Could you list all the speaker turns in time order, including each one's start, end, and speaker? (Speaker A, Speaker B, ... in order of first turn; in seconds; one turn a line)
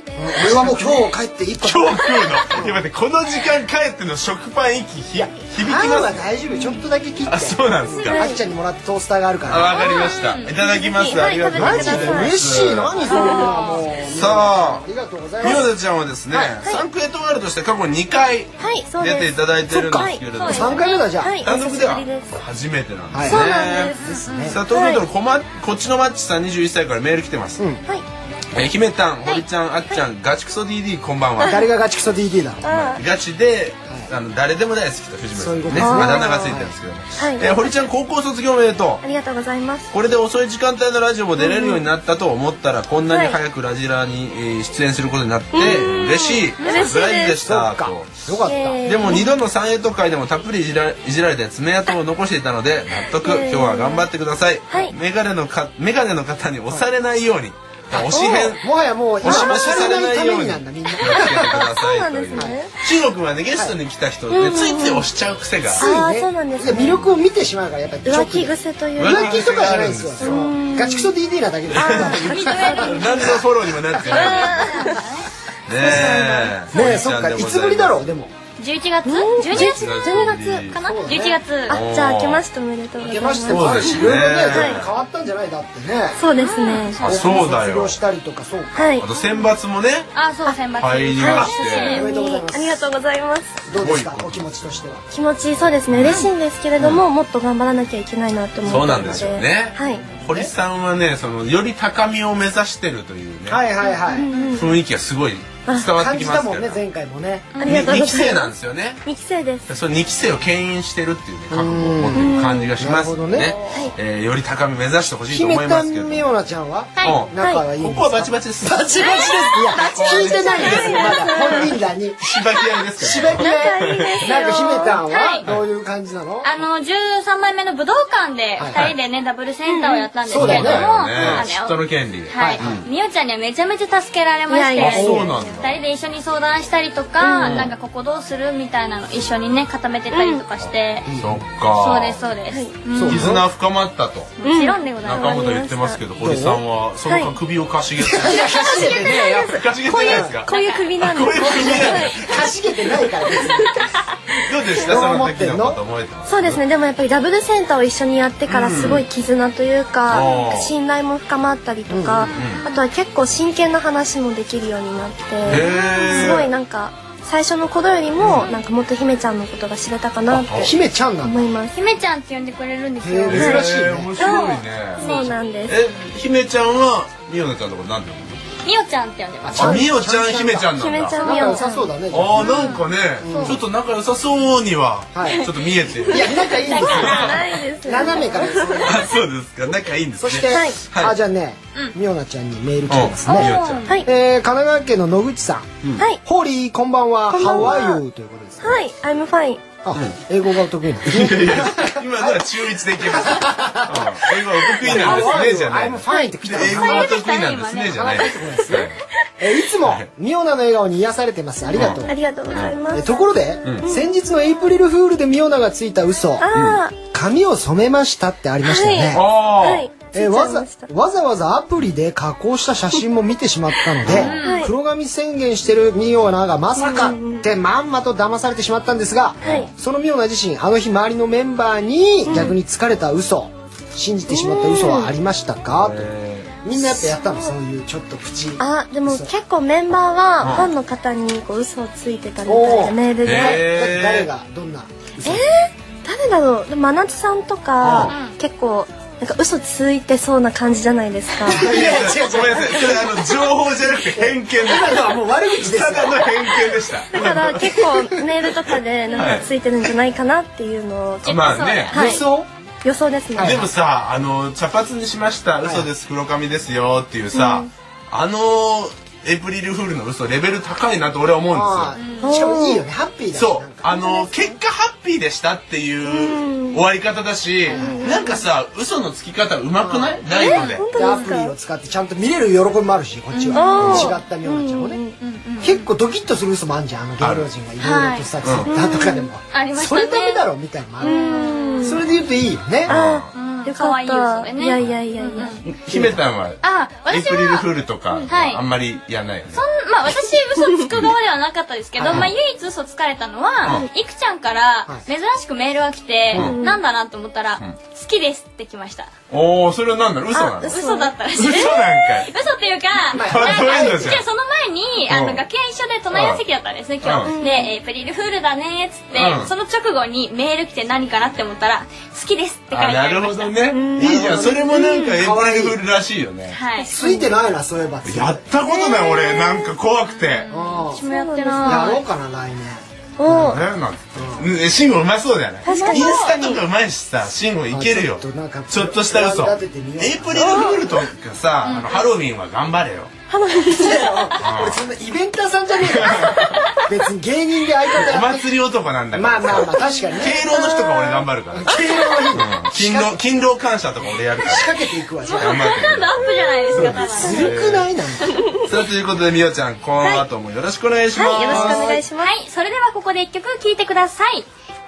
Speaker A: 0.1-2.8
Speaker B: 0.4-1.1
Speaker B: 1.6-6.3
Speaker C: 2.1-2.4
Speaker A: 5.2-9.8
Speaker B: 7.3-8.3
Speaker C: 7.9-8.4
Speaker B: 9.5-13.2
Speaker C: 9.7-13.6
Speaker D: 9.8-10.5
Speaker A: 11.5-15.7
Speaker D: 13.1-13.8
Speaker B: 14.1-14.8
Speaker B: 15.4-20.8
Speaker C: 18.6-22.3
Speaker D: 20.3-21.1
Speaker A: 20.5-21.4
Speaker B: 21.4-24.0
Speaker A: 23.1-24.6
Speaker C: 23.2-25.0
Speaker B: 24.5-27.6
Speaker B: 28.5-31.6
Speaker C: 31.4-31.6
Speaker A: 31.4-32.6
Speaker C: 32.6-33.0
Speaker B: 32.6-39.0
Speaker A: 35.3-36.7
Speaker C: 35.7-36.4
Speaker C: 37.2-37.5
Speaker C: 39.0-39.9
Speaker B: 39.9-48.2
Speaker C: 41.4-41.8
Speaker C: 43.1-43.4
Speaker C: 45.5-47.4
Speaker D: 46.6-46.9
Speaker A: 47.4-49.0
Speaker C: 48.4-49.4
Speaker B: 48.8-58.6
Speaker C: 53.1-54.1
Speaker A: 57.9-61.7
Speaker C: 58.1-58.5
Speaker B: 59.2-65.9
Speaker C: 59.2-59.6
Speaker C: 61.1-62.7
Speaker C: 64.3-65.1
Speaker C: 65.7-67.1
Speaker A: 65.7-73.4
Speaker C: 68.0-71.1
Speaker B: 69.0-70.5
Speaker B: 71.7-74.7
Speaker C: 71.7-73.4
Speaker D: 72.2-73.4
Speaker A: 73.9-74.3
Speaker D: 74.0-75.3
Speaker C: 74.1-75.0
Speaker B: 75.7-78.1
Speaker A: 75.8-78.3
Speaker C: 75.8-76.3
Speaker D: 78.6-80.0
Speaker C: 79.0-80.7
Speaker B: 79.5-80.8
Speaker D: 80.7-81.8
Speaker A: 80.7-81.4
Speaker B: 81.7-82.4
Speaker C: 81.7-84.8
Speaker A: 83.0-86.2
Speaker B: 83.5-84.9
Speaker C: 86.2-87.0
Speaker D: 86.4-87.5
Speaker B: 87.0-88.0
Speaker A: 87.0-89.0
Speaker C: 88.7-89.1
Speaker B: 89.0-90.1
Speaker D: 90.1-92.1
Speaker B: 90.8-92.0
Speaker C: 91.2-93.6
Speaker A: 91.8-92.8
Speaker A: 93.7-95.0
Speaker B: 93.7-94.9
Speaker C: 95.1-100.0
Speaker B: 95.9-97.0
Speaker B: 98.6-103.6
Speaker A: 98.7-99.3
Speaker A: 100.1-100.5
Speaker A: 103.5-104.3
Speaker C: 103.8-104.8
Speaker D: 104.1-104.7
Speaker B: 104.5-106.8
Speaker A: 105.9-107.6
Speaker D: 107.5-107.9
Speaker C: 107.6-108.5
Speaker B: 107.6-109.0
Speaker C: 109.0-109.7
Speaker B: 109.7-116.2
Speaker A: 111.5-113.5
Speaker C: 112.1-112.7
Speaker D: 113.4-113.9
Speaker A: 115.3-122.2
Speaker D: 117.0-117.2
Speaker B: 117.0-118.9
Speaker C: 117.4-117.6
Speaker C: 119.0-121.7
Speaker D: 119.0-119.9
Speaker B: 119.8-121.7
Speaker D: 120.5-121.2
Speaker B: 122.2-124.3
Speaker A: 123.0-126.5
Speaker C: 123.4-125.2
Speaker D: 125.0-125.4
Speaker D: 126.4-141.1
Speaker A: 128.6-128.9
Speaker C: 129.7-130.1
Speaker A: 130.3-131.5
Speaker B: 130.3-132.9
Speaker A: 132.3-132.8
Speaker C: 134.5-135.7
Speaker B: 134.8-135.8
Speaker C: 137.2-137.7
Speaker B: 137.4-137.7
Speaker C: 140.1-140.4
Speaker A: 141.1-141.4
Speaker B: 141.2-142.2
Speaker D: 141.8-143.3
Speaker A: 142.9-143.4
Speaker B: 143.0-144.3
Speaker D: 144.4-145.5
Speaker C: 144.4-146.0
Speaker B: 145.0-152.3
Speaker A: 146.2-146.6
Speaker C: 147.1-147.3
Speaker A: 148.0-150.4
Speaker C: 148.2-152.3
Speaker D: 150.5-150.9
Speaker A: 151.3-153.8
Speaker C: 153.4-153.8
Speaker B: 154.4-156.6
Speaker A: 154.8-155.8
Speaker C: 156.3-171.8
Speaker B: 158.5-159.0
Speaker B: 160.1-160.7
Speaker A: 161.9-162.3
Speaker D: 162.2-162.7
Speaker B: 162.3-162.6
Speaker B: 165.4-166.5
Speaker D: 165.6-166.3
Speaker B: 168.2-168.5
Speaker B: 170.3-170.7
Speaker A: 170.5-171.4
Speaker D: 171.7-173.6
Speaker A: 173.0-174.1
Speaker B: 173.3-178.4
Speaker C: 173.3-173.6
Speaker C: 174.2-175.7
Speaker D: 174.2-174.4
Speaker D: 175.0-175.3
Speaker D: 178.6-179.8
Speaker A: 179.4-182.6
Speaker B: 179.6-181.2
Speaker C: 180.7-181.9
Speaker D: 181.2-181.7
Speaker B: 182.1-187.4
Speaker D: 182.4-183.6
Speaker A: 183.2-183.6
Speaker A: 185.1-185.5
Speaker D: 185.2-188.2
Speaker A: 186.1-189.1
Speaker C: 186.7-189.1
Speaker B: 188.8-191.1
Speaker A: 190.2-193.5
Speaker C: 190.5-190.8
Speaker B: 192.9-193.8
Speaker D: 193.2-194.0
Speaker A: 194.0-198.8
Speaker C: 197.3-198.0
Speaker C: 198.6-199.7
Speaker A: 199.8-207.1
Speaker B: 201.1-209.0
Speaker D: 206.6-208.3
Speaker A: 207.9-208.9
Speaker A: 209.4-212.1
Speaker C: 211.7-213.3
Speaker B: 211.7-212.8
Speaker A: 212.9-216.5
Speaker C: 213.8-214.1
Speaker C: 216.4-216.9
Speaker B: 216.5-216.8
Speaker A: 217.1-219.2
Speaker C: 218.6-220.9
Speaker B: 219.1-219.9
Speaker A: 220.1-236.1
Speaker B: 224.0-224.3
Speaker C: 224.1-224.7
Speaker D: 224.1-224.7
Speaker C: 226.8-227.5
Speaker B: 229.4-229.7
Speaker C: 232.2-232.6
Speaker C: 234.3-235.1
Speaker B: 235.8-236.6
Speaker A: 236.6-239.3
Speaker C: 236.8-237.5
Speaker C: 238.6-243.6
Speaker B: 240.4-240.7
Speaker A: 242.4-245.4
Speaker B: 243.2-244.3
Speaker C: 245.2-253.5
Speaker B: 247.8-248.1
Speaker D: 248.1-248.4
Speaker A: 251.4-253.0
Speaker B: 251.4-257.9
Speaker A: 254.1-256.4
Speaker C: 257.1-262.2
Speaker B: 259.1-259.5
Speaker B: 261.2-262.1
Speaker D: 261.2-262.1
Speaker A: 261.9-262.5
Speaker C: 262.8-263.6
Speaker A: 263.4-263.7
Speaker B: 263.4-271.9
Speaker A: 265.6-265.9
Speaker C: 267.3-267.7
Speaker A: 271.5-273.9
Speaker D: 271.9-272.3
Speaker C: 272.2-272.9
Speaker B: 273.3-280.9
Speaker C: 273.9-274.5
Speaker C: 276.1-276.8
Speaker C: 277.7-278.4
Speaker A: 277.7-278.3
Speaker A: 279.8-280.2
Speaker C: 280.3-281.5
Speaker D: 280.4-281.3
Speaker A: 280.9-285.0
Speaker D: 283.3-284.1
Speaker C: 283.5-285.2
Speaker B: 283.8-284.1
Speaker D: 285.2-285.9
Speaker A: 285.6-292.9
Speaker B: 287.2-287.5
Speaker D: 287.8-288.3
Speaker B: 288.4-288.7
Speaker C: 288.7-289.3
Speaker D: 289.5-290.5
Speaker C: 291.0-292.0
Speaker D: 291.0-292.0
Speaker B: 292.9-293.3
Speaker C: 292.9-295.6
Speaker D: 293.3-295.6
Speaker B: 295.7-299.6
Speaker A: 295.9-296.2
Speaker D: 296.6-297.6
Speaker D: 298.3-298.6
Speaker D: 299.5-309.1
Speaker C: 300.1-300.9
Speaker A: 302.0-302.3
Speaker C: 306.3-306.8
Speaker B: 309.3-310.8
Speaker C: 310.3-311.1
Speaker D: 310.7-323.6
Speaker B: 311.3-312.3
Speaker A: 313.1-314.1
Speaker B: 313.1-314.2
Speaker B: 315.1-315.4
Speaker B: 316.1-316.4
Speaker B: 317.0-317.3
Speaker C: 317.2-317.7
Speaker B: 319.1-319.5
Speaker B: 322.7-326.6
Speaker C: 323.7-324.6
Speaker A: 324.0-325.8
Speaker D: 326.5-326.9
Speaker C: 326.8-327.3
Speaker A: 326.9-328.4
Speaker B: 328.0-330.5
Speaker C: 328.6-329.7
Speaker D: 330.1-332.0
Speaker A: 330.5-331.0
Speaker C: 331.0-332.0
Speaker A: 331.6-333.6
Speaker C: 333.2-333.6
Speaker B: 333.3-343.1
Speaker A: 334.1-334.5
Speaker C: 335.6-336.6
Speaker D: 335.6-336.5
Speaker A: 337.7-340.8
Speaker C: 340.3-340.9
Speaker D: 341.6-342.0
Speaker C: 343.3-344.3
Speaker A: 343.7-348.5
Speaker B: 344.4-344.8
Speaker B: 345.8-346.6
Speaker B: 347.9-351.8
Speaker A: 349.1-350.4
Speaker C: 349.8-351.3
Speaker A: 351.5-353.2
Speaker C: 351.9-352.3
Speaker B: 352.3-354.7
Speaker A: 354.4-355.8
Speaker D: 355.2-357.5
Speaker B: 355.4-356.2
Speaker B: 356.7-357.9
Speaker A: 356.7-358.4
Speaker C: 358.4-358.7
Speaker B: 358.6-362.0
Speaker C: 361.1-362.3
Speaker A: 361.4-362.0
Speaker D: 362.2-364.5